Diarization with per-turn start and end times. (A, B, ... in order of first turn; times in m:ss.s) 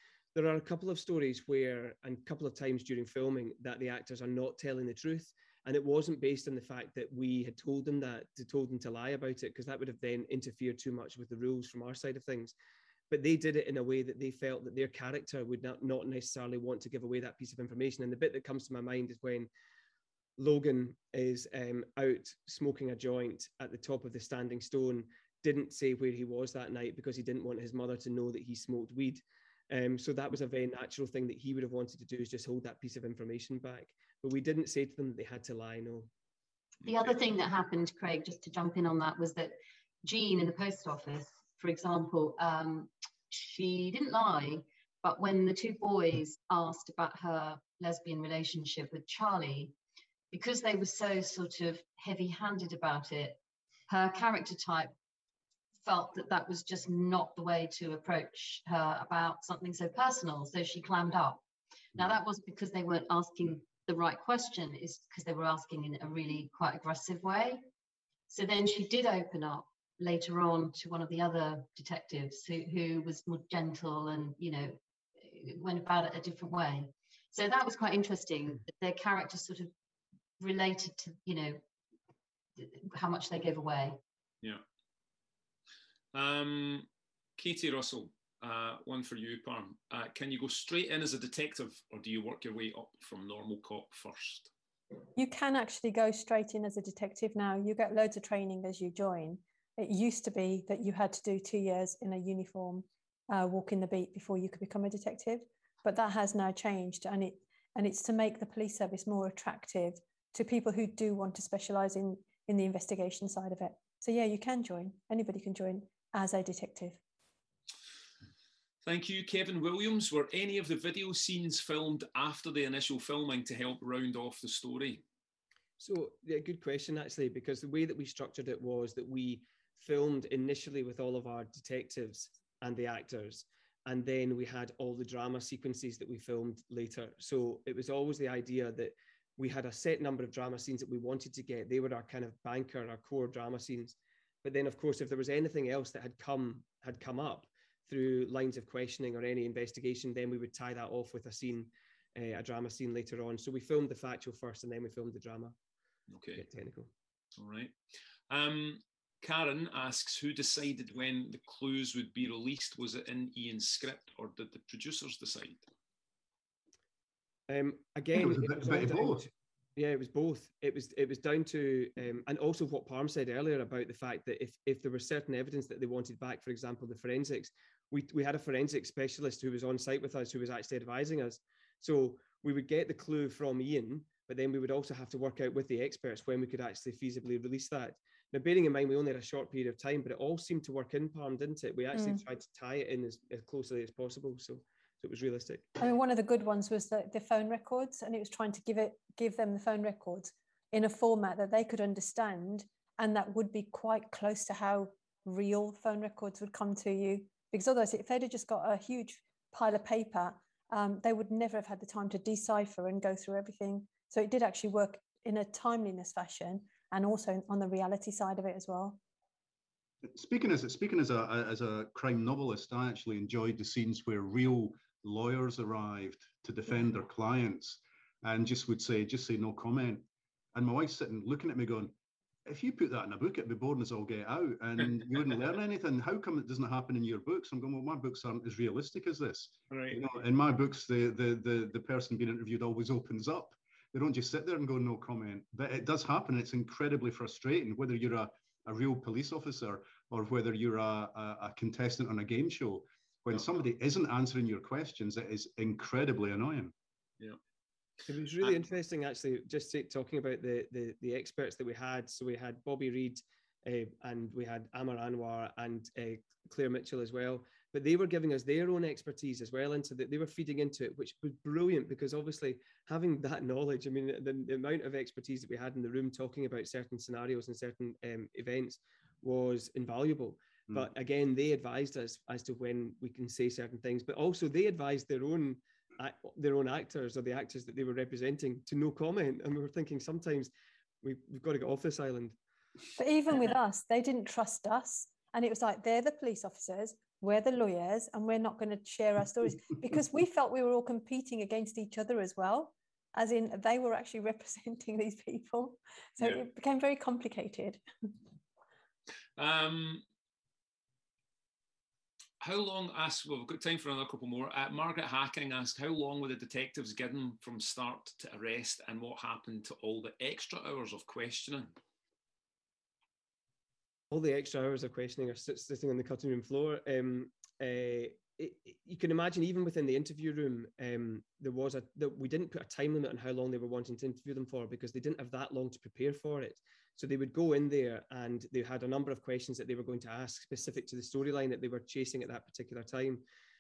0:00.4-0:12.5 A
0:13.1-0:19.5 A
0:20.4-0:36.1 A
0:36.8-0:49.7 B
0:50.3-0:53.4 B
0:53.9-0:54.9 B
0:55.8-1:01.4 B
1:02.0-1:07.7 B
1:08.3-1:19.7 B
1:20.4-1:21.6 B
1:22.6-1:24.0 B
1:26.1-1:34.5 C
1:35.2-1:57.0 D
1:58.8-2:05.0 C
2:05.8-2:35.6 A
2:36.1-2:36.4 C
2:36.3-2:36.9 A
2:37.4-2:37.7 C
2:38.3-2:45.6 C
2:47.5-3:15.7 A
2:48.1-2:49.2 E
3:11.9-3:12.2 D
3:15.8-3:39.0 D
3:40.0-3:51.9 E
3:52.5-4:16.7 E
3:59.7-4:00.0 C
4:18.1-4:50.5 A
4:51.0-4:52.4 A
4:53.0-5:07.8 D
5:09.4-5:10.0 C
5:12.4-5:21.7 C
5:24.1-5:43.2 A